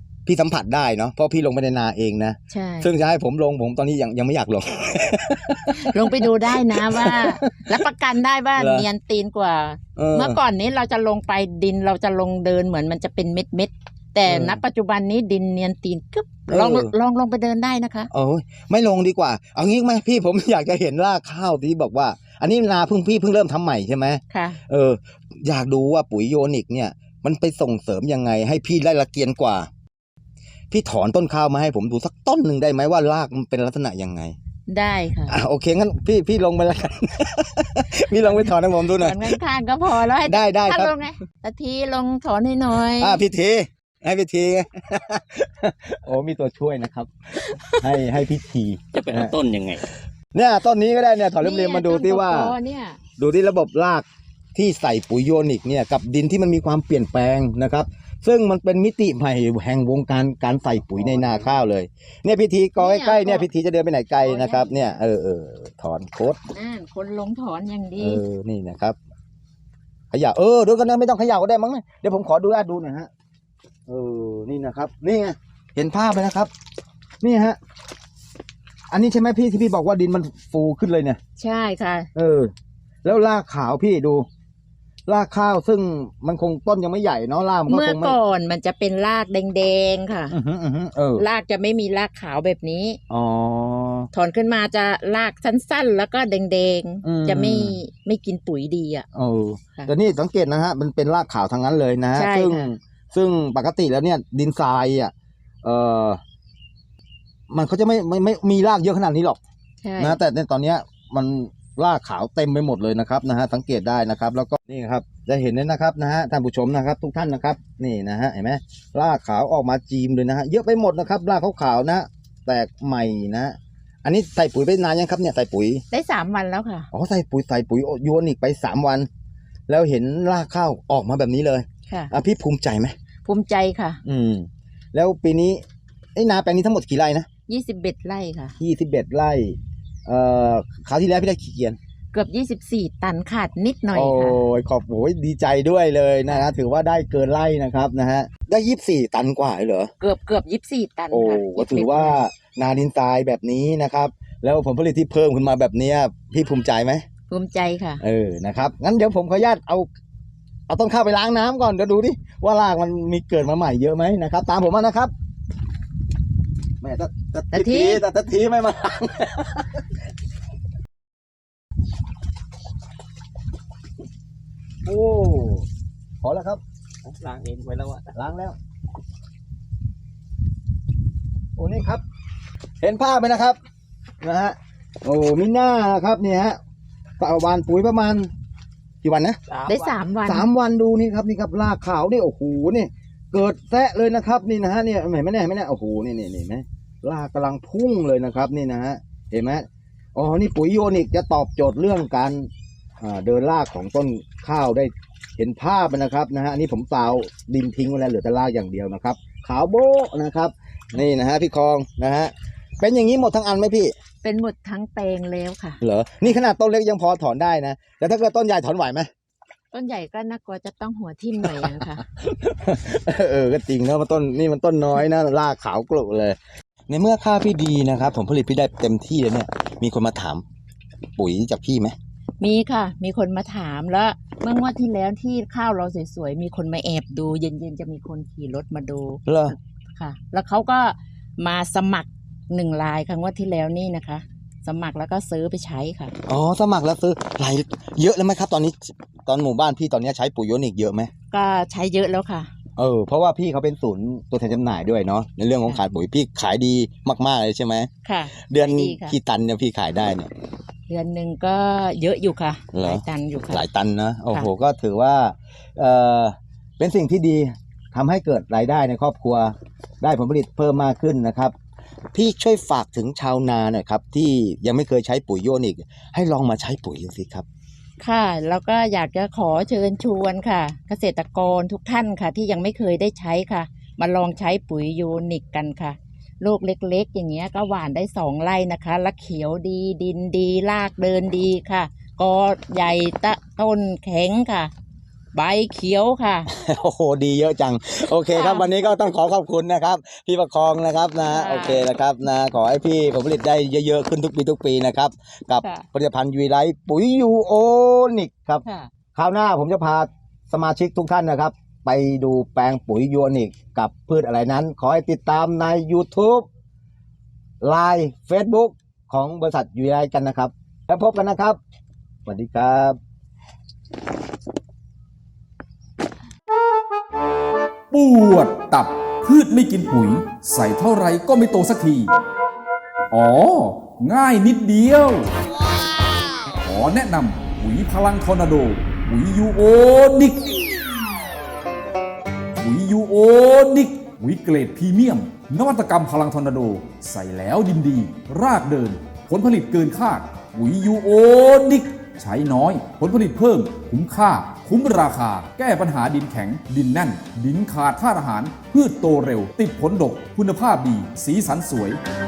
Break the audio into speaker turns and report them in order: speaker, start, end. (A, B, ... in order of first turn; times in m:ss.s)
0:00.3-0:07.8 A
0:02.5-0:02.9 B
0:05.8-0:18.1 B
0:08.6-0:08.9 A
0:10.0-0:10.4 A
0:14.3-0:14.6 A
0:16.5-0:16.9 A
0:18.1-0:29.7 A
0:24.3-0:24.6 B
0:30.7-0:34.4 A
0:34.7-0:35.4 B
0:35.3-0:39.4 A
0:38.1-0:43.2 B
0:40.0-0:41.0 A
0:42.9-0:47.1 A
0:47.7-0:49.4 A
0:48.9-0:49.9 C
0:50.3-0:52.6 A
0:51.4-0:53.0 B
0:53.2-1:06.4 A
1:02.8-1:03.5 B
1:04.2-1:04.8 B
1:06.5-1:08.2 B
1:08.0-1:09.0 A
1:10.1-1:13.1 A
1:13.9-1:16.5 A
1:17.2-1:17.6 A
1:18.9-1:21.2 A
1:21.4-1:22.1 B
1:22.2-1:22.5 A
1:23.0-1:24.3 A
1:25.1-1:28.2 A
1:27.7-1:30.3 B
1:30.3-1:31.2 A
1:31.2-1:33.0 B
1:33.1-1:34.1 A
1:34.1-1:39.0 B
1:37.0-1:37.8 A
1:39.1-1:46.2 A
1:42.2-1:42.7 B
1:47.5-1:49.4 A
1:49.8-1:50.2 B
1:50.0-2:05.8 A
2:05.9-2:06.9 B
2:06.9-2:09.1 A
2:09.7-2:12.9 A
2:11.9-2:12.1 B
2:13.2-2:14.0 B
2:14.0-2:15.6 A
2:16.2-2:17.3 A
2:17.5-2:18.6 B
2:18.6-2:21.8 A
2:22.1-2:24.4 B
2:23.9-2:29.9 A
2:26.3-2:26.5 B
2:30.0-2:32.2 B
2:31.1-2:37.0 A
2:37.3-2:38.0 B
2:38.0-2:39.9 A
2:40.7-2:45.1 A
2:46.8-2:49.8 A
2:47.5-2:48.0 B
2:54.8-2:55.7 A
2:56.2-2:56.6 A
2:57.0-2:58.2 C
2:58.1-2:58.6 A
3:01.6-3:02.0 A
3:02.8-3:03.6 A
3:04.2-3:06.6 A
3:07.2-3:08.3 A
3:09.0-3:09.4 A
3:09.7-3:10.4 B
3:10.2-3:22.5 A
3:23.0-3:33.9 A
3:34.2-3:36.4 B
3:35.8-3:39.1 A
3:39.7-3:42.0 B
3:41.6-3:50.4 A
3:51.2-3:52.0 A
3:52.4-4:06.2 B
3:59.3-3:59.6 A
4:06.3-4:11.1 A
4:11.3-4:12.5 B
4:12.8-4:17.9 A
4:18.0-4:19.2 B
4:18.5-4:20.3 A
4:20.9-4:23.6 B
4:22.7-4:31.5 A
4:32.1-4:37.5 A
4:38.0-4:54.7 B
4:55.3-4:56.5 B
4:56.5-5:08.6 A
4:58.3-4:58.7 B
5:01.3-5:01.9 B
5:08.6-5:08.9 B
5:09.2-5:16.5 A
5:17.6-5:21.6 A
5:22.3-5:23.0 A
5:27.9-5:32.1 D
5:33.1-5:35.3 D
5:36.6-5:40.4 D
5:42.6-6:02.0 D